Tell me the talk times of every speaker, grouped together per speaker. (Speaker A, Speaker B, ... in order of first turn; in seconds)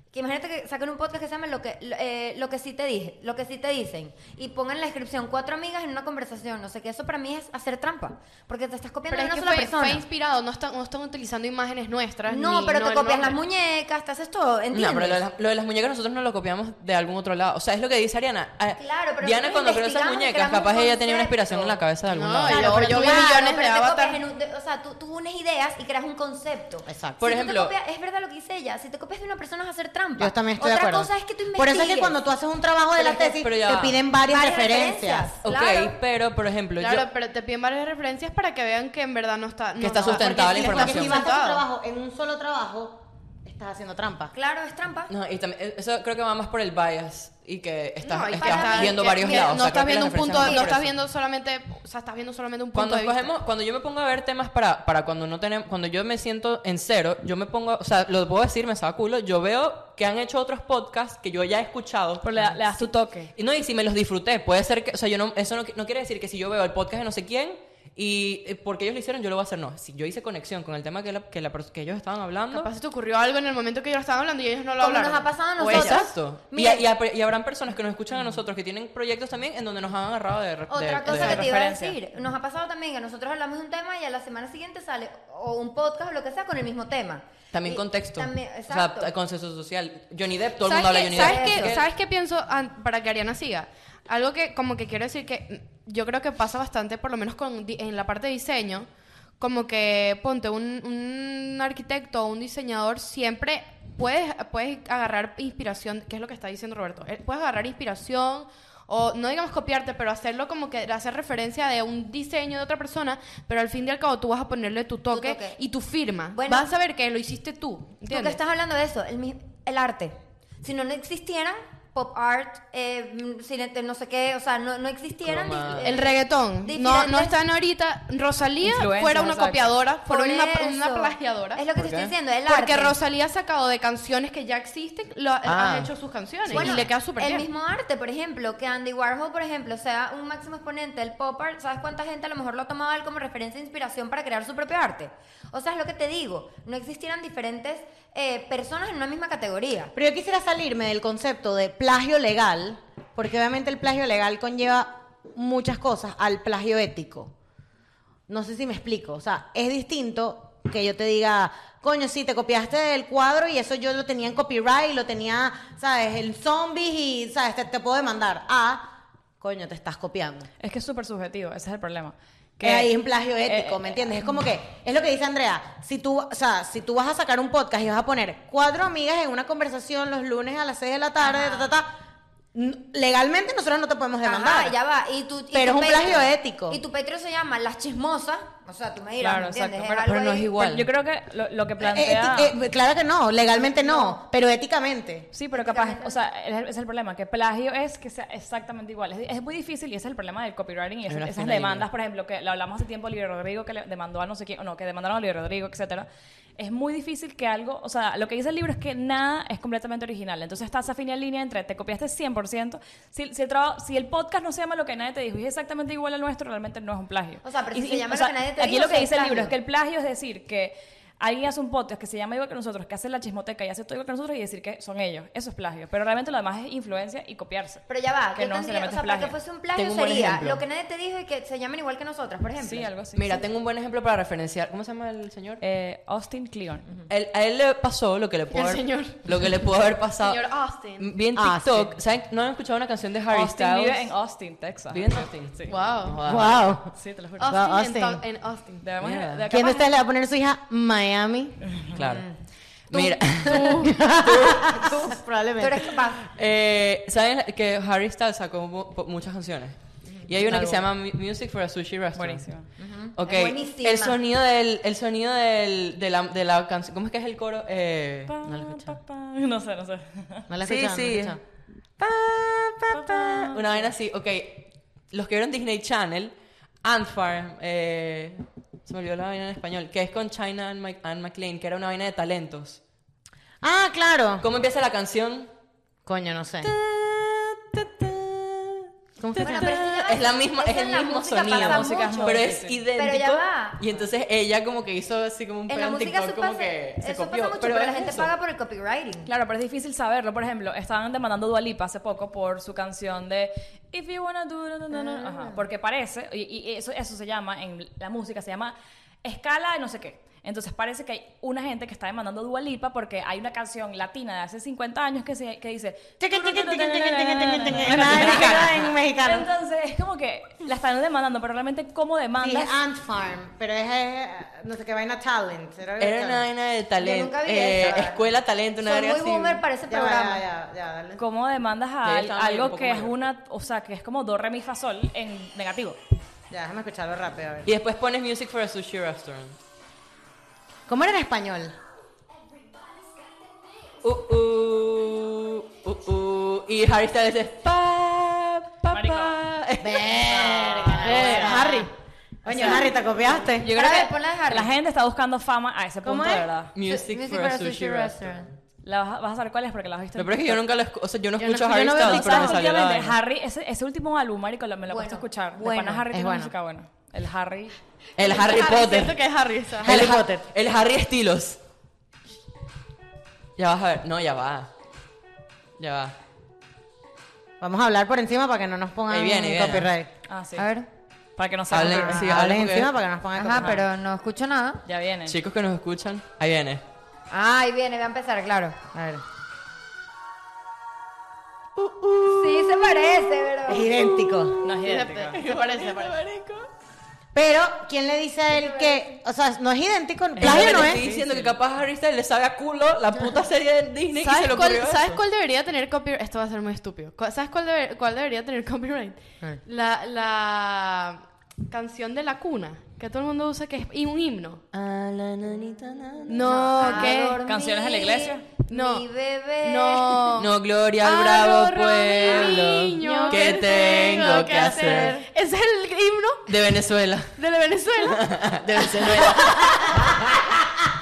Speaker A: 0.1-10.0, 12.3-15.2, 18.8-21.8, 22.5-32.2, 33.0-33.4, 34.3-36.0, 44.3-45.1, 48.4-49.6, 50.4-50.7, 74.8-76.9, 80.7-89.1, 91.1-91.8, 115.1-115.6, 116.4-116.7, 118.1-127.4, 130.1-133.0, 136.5-149.9, 181.2-181.7, 184.2-190.5, 193.7-194.2, 195.5-196.2, 217.4-219.5, 227.9-233.3, 255.6-256.2, 262.8-264.2, 289.4-293.8, 295.7-299.3, 304.9-305.6, 327.0-328.2, 328.8-330.4, 351.3-351.9, 352.5-352.8, 353.7-354.7, 356.9-358.5, 364.9-366.1, 368.2-368.9, 380.6-380.9, 383.4-384.8, 387.3-388.8, 392.2-393.9, 398.5-399.1, 416.4-420.4, 422.3-422.6
Speaker B: 9.1-13.4, 22.1-24.2, 36.8-41.6, 48.0-53.3, 72.5-76.1, 90.6-98.9, 99.4-118.4, 125.8-131.6, 132.5-137.5, 238.5-241.1, 245.7-246.2, 247.4-248.9, 252.9-254.0, 368.3-370.0, 394.8-396.2, 404.1-414.6, 416.3-417.4, 418.7-419.1, 419.6-426.5, 427.4-430.0
Speaker C: 14.7-23.0, 27.2-27.7, 33.3-34.0, 35.4-37.1, 39.8-41.3, 45.1-50.9, 52.7-72.7, 75.6-81.5, 87.5-91.8, 125.2-126.0, 131.7-132.1, 135.4-135.9, 136.5-136.9, 190.0-190.9, 201.1-201.9, 229.8-230.6, 233.2-235.6, 237.1-240.4, 241.0-244.1, 244.9-246.8, 249.0-249.4, 251.9-252.3, 252.9-255.1, 256.2-262.6, 263.2-268.3, 270.6-271.4, 272.0-282.8, 284.4-285.5, 286.6-298.3, 317.8-318.8, 326.0-329.6, 332.0-333.1, 337.7-339.6, 344.0-351.8, 352.5-352.9, 356.8-358.5, 360.2-363.2, 368.2-371.6, 373.6-374.7, 375.8-376.1, 379.1-379.9, 381.7-382.9, 385.3-386.8, 391.8-396.7, 400.4-405.2, 414.7-416.8, 420.4-425.2, 426.5-427.4, 427.9-430.4
Speaker D: 26.9-27.2, 30.2-35.3, 40.0-44.3, 149.9-157.3, 158.3-168.9, 169.4-170.5, 172.6-181.9, 182.5-184.8, 185.5-186.8, 191.8-195.3, 241.3-241.9, 246.2-246.9, 247.5-248.2, 249.5-251.7, 253.7-256.0, 268.4-269.0, 270.5-271.4, 283.6-284.5, 286.1-286.7, 289.2-289.8, 316.2-319.5, 322.4-326.5, 329.9-331.2, 336.5-337.7, 340.9-341.8, 349.8-351.9, 352.4-353.7, 356.0-356.5, 361.4-362.7, 366.1-366.5, 369.8-370.4, 377.6-380.1, 381.7-383.8, 388.9-389.2, 393.7-394.6, 397.3-401.0
Speaker E: 62.2-63.3, 81.0-82.0, 128.6-129.8, 170.6-174.1, 189.2-192.6, 195.3-227.8, 228.3-229.3, 232.6-233.4, 235.6-236.9, 243.3-245.8, 246.9-247.6, 248.8-250.0, 260.4-260.8, 262.2-262.7, 268.3-270.5, 272.9-273.9, 291.4-292.8, 299.3-322.8, 331.2-336.0, 348.9-349.4, 353.6-356.7, 358.8-360.6, 362.0-367.7, 380.3-380.7, 381.4-382.3, 383.6-383.8, 384.9-385.4, 394.6-395.4, 400.4-401.5, 417.4-418.5, 423.0-423.5